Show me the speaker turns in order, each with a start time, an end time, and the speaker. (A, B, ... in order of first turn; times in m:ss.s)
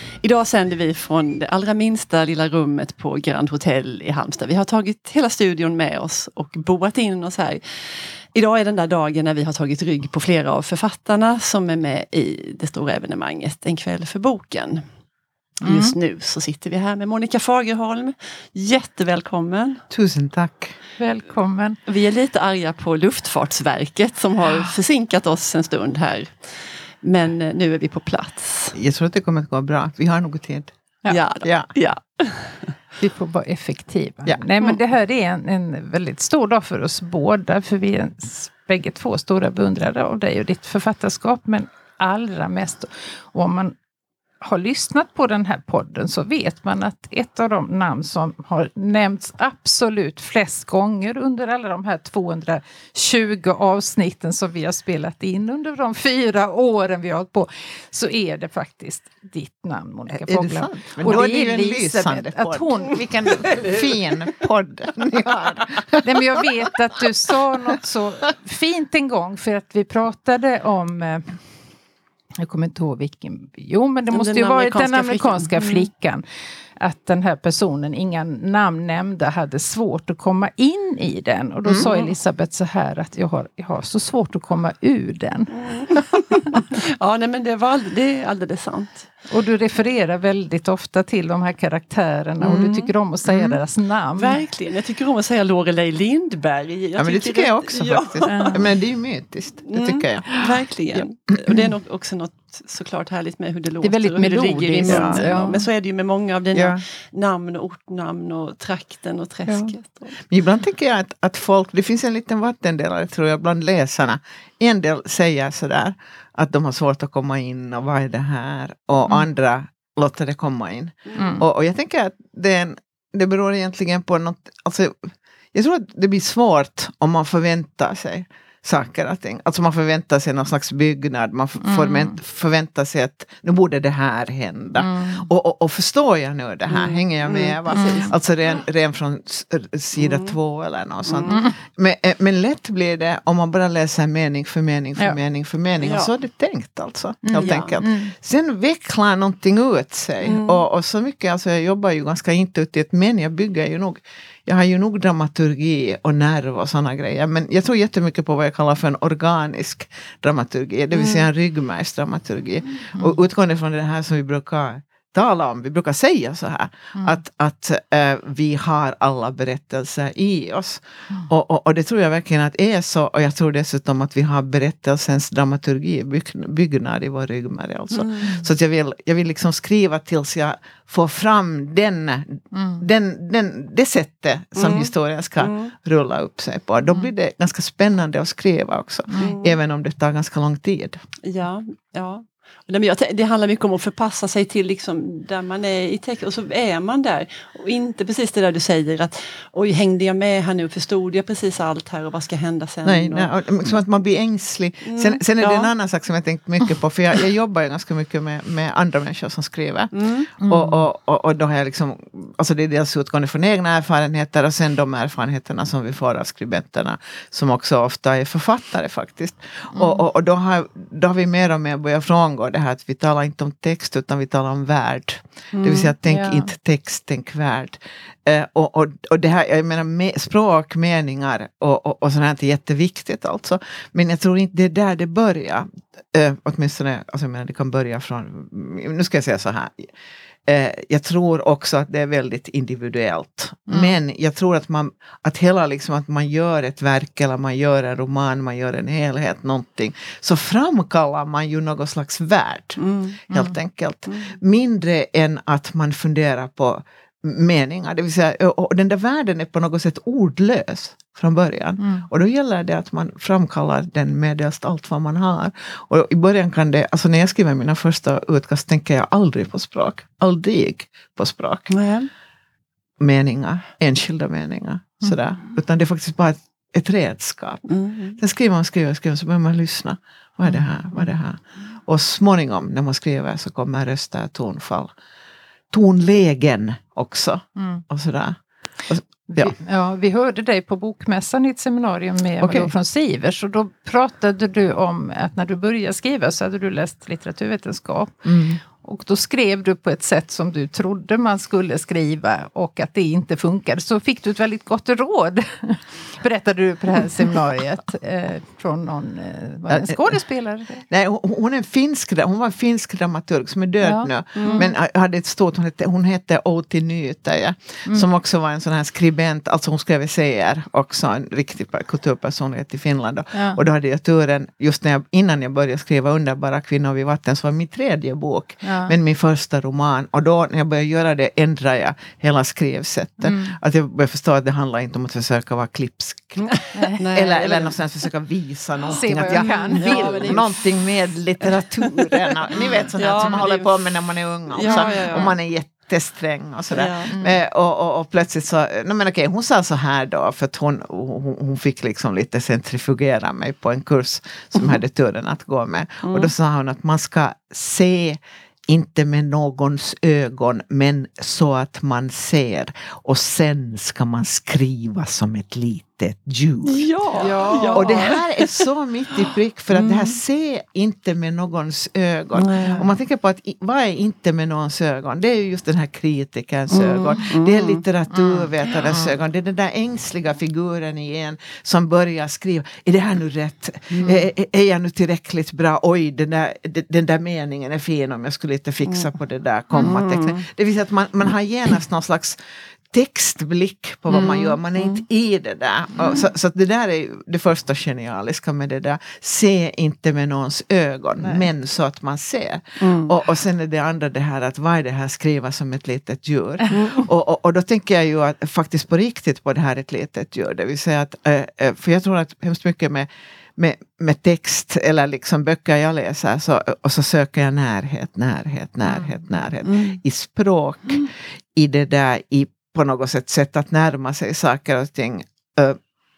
0:00.2-0:14.8 A
0:15.6-0:16.0 B
0:15.6-0:19.8 A
0:19.9-0:20.8 C
0:21.0-0:21.8 B
0:21.9-0:28.8 A
0:28.7-0:30.7 C
0:31.1-0:32.8 A
0:31.4-0:31.7 C
0:33.0-0:43.8 B
0:44.4-1:03.6 B
1:00.1-1:06.2 C
1:06.0-1:11.4 B
1:12.4-1:16.2 B
1:14.1-1:15.9 A
1:16.8-1:25.5 B
1:21.8-1:22.1 A
1:25.5-1:29.1 A
1:29.3-1:34.4 B
1:32.4-1:32.9 A
1:33.2-1:33.6 C
1:34.2-1:38.6 A
1:37.0-1:40.3 C
1:38.2-1:38.6 B
1:39.7-1:50.1 A
1:43.8-1:45.6 B
1:44.8-1:45.3 C
1:46.5-1:46.8 C
1:49.5-3:11.0 C
2:01.1-2:01.4 B
2:11.6-2:12.2 B
2:14.8-2:15.3 B
2:16.7-2:18.1 A
2:17.7-2:18.1 B
2:20.0-2:20.3 A
2:21.0-2:21.4 A
2:21.2-2:21.6 B
2:25.8-2:26.1 A
2:27.2-2:28.1 B
2:27.4-2:27.7 A
2:30.2-2:30.6 A
2:41.0-2:41.2 A
2:57.9-2:58.3 A
3:02.5-3:02.8 B
3:04.6-3:05.7 A
3:09.2-3:09.6 A
3:11.2-3:23.3 A
3:22.8-3:59.9 C
3:24.8-3:25.7 A
3:29.9-3:30.3 A
3:30.4-3:30.8 B
3:39.7-3:40.0 B
3:45.5-3:45.9 A
3:46.0-3:46.5 B
4:00.5-4:31.7 C
4:03.7-4:04.0 B
4:12.8-4:13.2 A
4:21.8-4:22.1 B
4:31.7-4:32.1 A
4:33.0-4:37.6 C
4:37.7-4:38.2 A
4:38.2-4:44.9 C
4:45.7-4:49.5 C
4:49.3-5:10.8 B
4:52.4-4:52.7 C
4:58.2-4:58.6 C
5:09.7-5:10.2 C
5:10.9-5:36.5 C
5:13.8-5:14.7 B
5:14.4-5:14.7 A
5:23.3-5:23.6 B
5:28.6-5:28.9 B
5:33.2-5:33.6 B
5:36.4-5:37.8 A
5:36.7-5:37.0 B
5:37.1-6:32.4 C
5:38.9-5:40.5 B
5:39.3-5:40.4 A
5:42.5-5:44.0 A
5:44.5-5:45.3 A
5:44.7-5:45.3 B
5:46.7-5:47.1 A
5:47.1-5:47.4 B
5:56.0-5:56.3 A
6:06.6-6:08.6 A
6:07.2-6:08.0 B
6:09.7-6:10.2 A
6:12.3-6:12.9 A
6:16.7-6:17.8 A
6:18.1-6:18.4 B
6:23.9-6:24.2 A
6:29.8-6:30.4 A
6:32.9-7:05.8 C
6:34.1-6:35.0 A
6:42.8-6:43.1 A
6:46.7-6:47.1 A
6:59.6-7:00.0 A